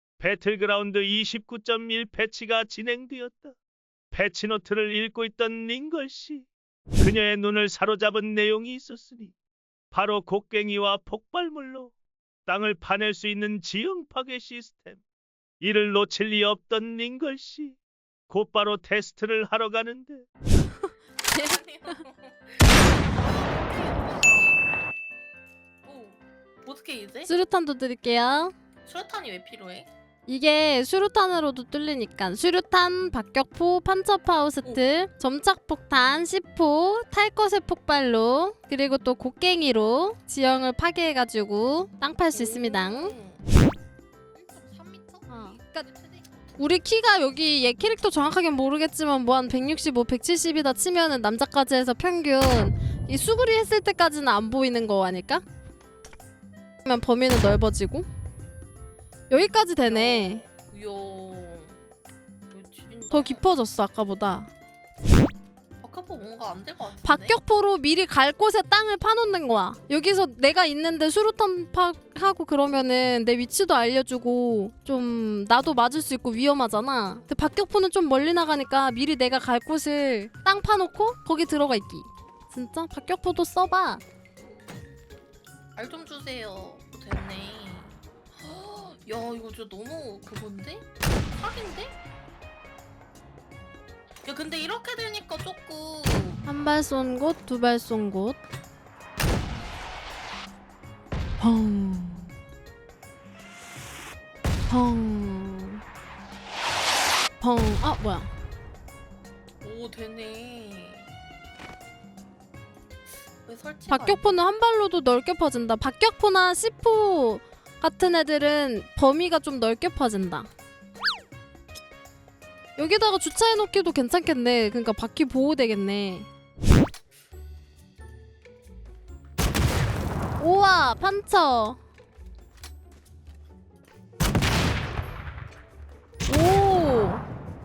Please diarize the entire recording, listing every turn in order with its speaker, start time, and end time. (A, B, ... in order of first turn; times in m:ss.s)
0:00.2-0:03.6 A
0:04.1-0:06.5 A
0:07.0-0:09.3 A
0:09.9-0:11.9 A
0:12.5-0:15.0 A
0:15.6-0:17.8 A
0:18.3-0:20.3 A
0:20.6-0:22.0 B
0:21.3-0:24.6 C
0:25.8-0:27.3 C
0:27.2-0:28.5 B
0:28.8-0:29.9 C
0:30.3-0:43.2 B
0:42.3-0:43.4 C
0:44.3-0:46.7 C
0:45.3-0:45.9 B
0:46.6-0:55.4 B
0:56.8-0:58.1 B
0:59.3-1:00.5 B
0:59.8-1:01.8 C
1:02.5-1:03.4 C
1:03.1-1:04.5 B
1:05.8-1:07.4 C
1:07.0-1:24.0 B
1:25.8-1:32.0 C
1:34.2-1:36.4 C
1:36.4-1:38.4 B
1:41.4-1:42.3 B
1:44.7-1:45.8 B
1:47.4-1:48.3 B
1:49.6-1:51.1 C
1:53.4-1:54.2 C
1:53.9-2:00.5 B
2:02.8-2:06.3 B
2:10.4-2:11.8 B
2:16.3-2:17.2 B